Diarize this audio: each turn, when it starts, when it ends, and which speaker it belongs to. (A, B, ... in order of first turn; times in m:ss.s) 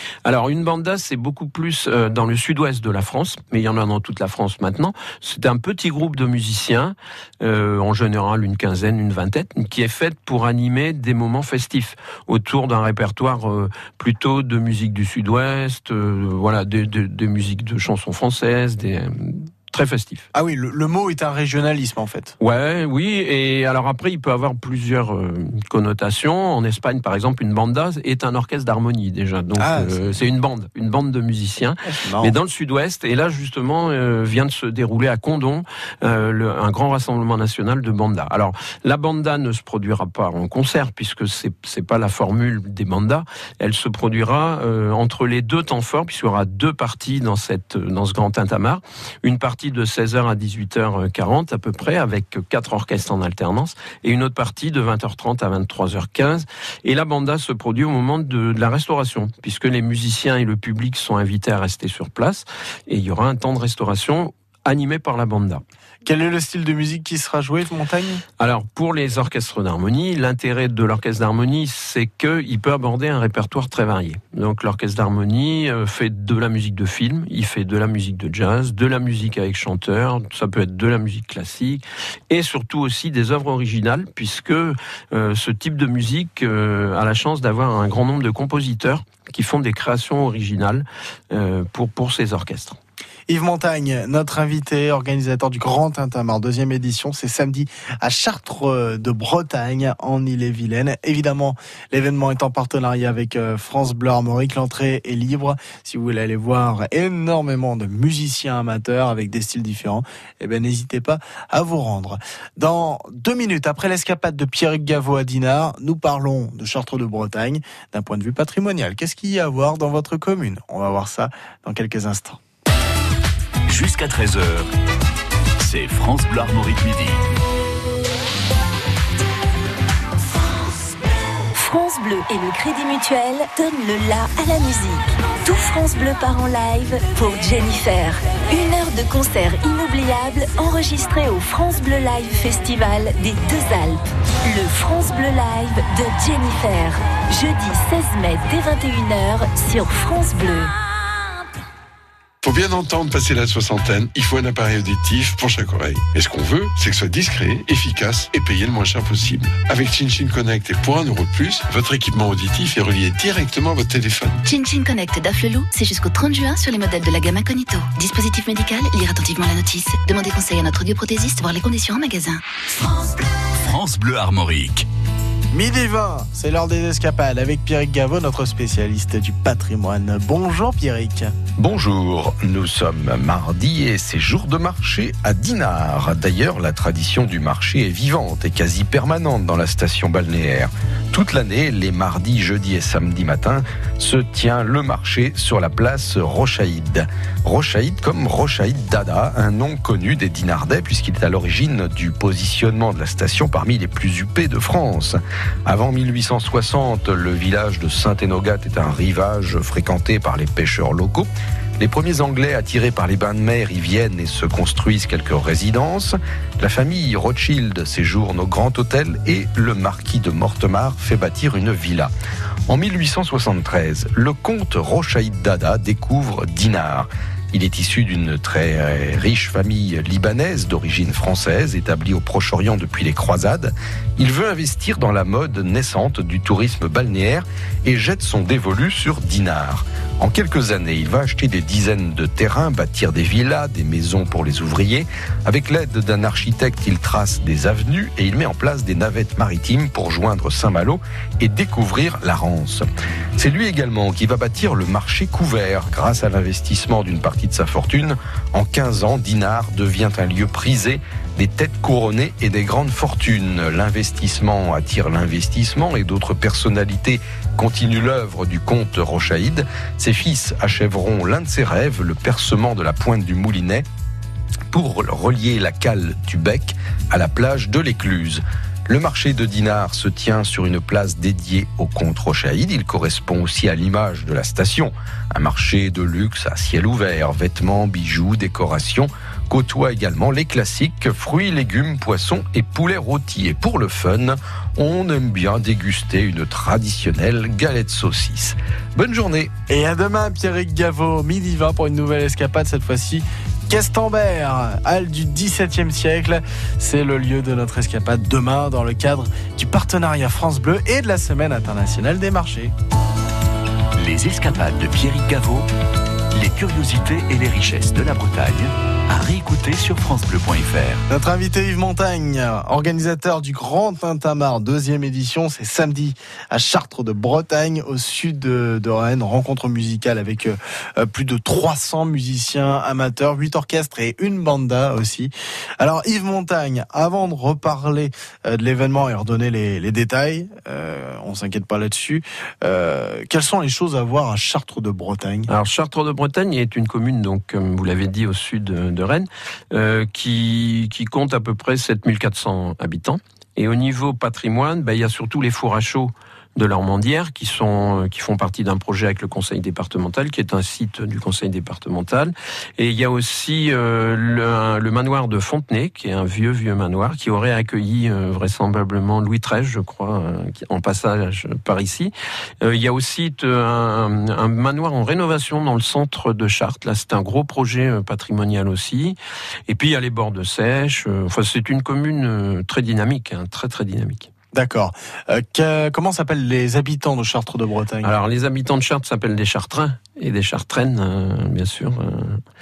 0:00.2-0:20.2 A
0:20.3-0:22.4 B
0:22.4-1:05.6 A
0:29.6-0:30.0 B
0:31.9-0:32.3 B
1:06.0-1:08.2 B
1:08.4-1:32.8 A
1:33.3-2:02.4 B
2:03.7-2:04.7 C
2:05.6-2:07.2 C
2:11.5-2:30.7 D
2:32.4-2:44.4 E
2:44.4-2:52.4 F
2:53.5-2:54.9 C
2:55.5-3:01.3 B
3:01.6-3:42.1 G
3:42.7-4:12.8 G
4:13.4-4:33.8 G
4:34.7-4:59.5 G
4:59.7-5:12.7 B
5:14.0-5:15.7 C
5:16.3-5:21.0 C
5:21.1-5:45.5 B
5:45.5-6:19.2 A
6:19.7-6:24.3 A
6:24.5-6:28.1 B
6:28.0-6:32.4 A